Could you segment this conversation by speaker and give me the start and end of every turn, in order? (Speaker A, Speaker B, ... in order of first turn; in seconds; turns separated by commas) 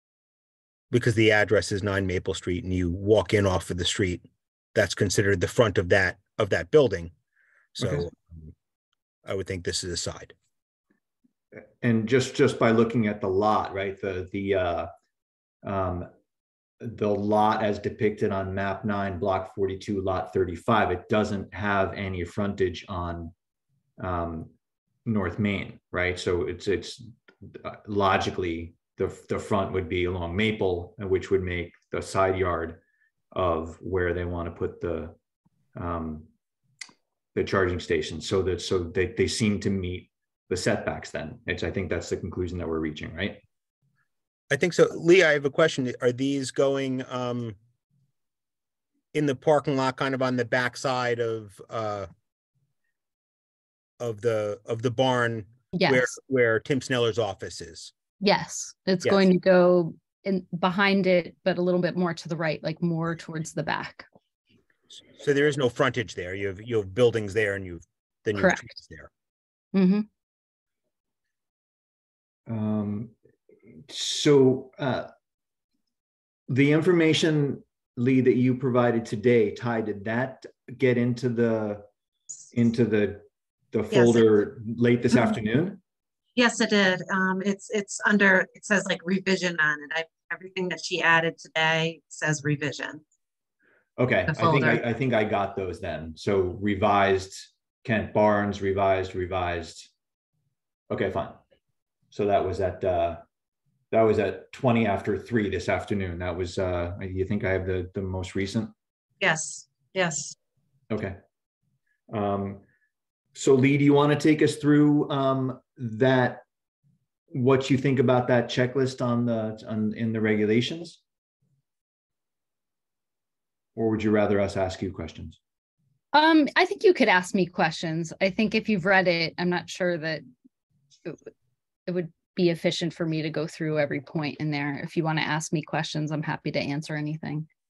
Speaker A: 0.9-7.1, Speaker A: 7.7-8.5, Speaker A: 9.2-10.3, Speaker B: 11.5-14.9, Speaker B: 15.6-16.1, Speaker B: 16.8-23.3, Speaker B: 24.0-24.5, Speaker B: 25.1-32.8, Speaker B: 33.3-35.1, Speaker B: 35.8-36.3, Speaker B: 37.3-43.4, Speaker A: 44.5-47.6, Speaker A: 49.1-52.1, Speaker A: 54.0-57.9, Speaker C: 55.7-56.1, Speaker C: 58.2-64.0, Speaker A: 64.9-69.1, Speaker C: 68.3-68.7, Speaker C: 69.7-70.0, Speaker B: 72.5-73.1, Speaker B: 73.9-75.1, Speaker B: 76.5-81.8, Speaker B: 82.5-85.8, Speaker D: 83.9-84.2, Speaker D: 86.3-93.0, Speaker B: 94.0-99.9, Speaker D: 94.3-94.8, Speaker B: 100.9-101.4, Speaker B: 102.1-103.2, Speaker B: 103.9-108.7, Speaker D: 109.2-110.3, Speaker B: 110.9-111.2, Speaker B: 112.1-112.6, Speaker B: 113.3-116.4, Speaker B: 117.3-121.0, Speaker B: 123.8-125.4, Speaker C: 126.1-130.2, Speaker C: 131.9-137.5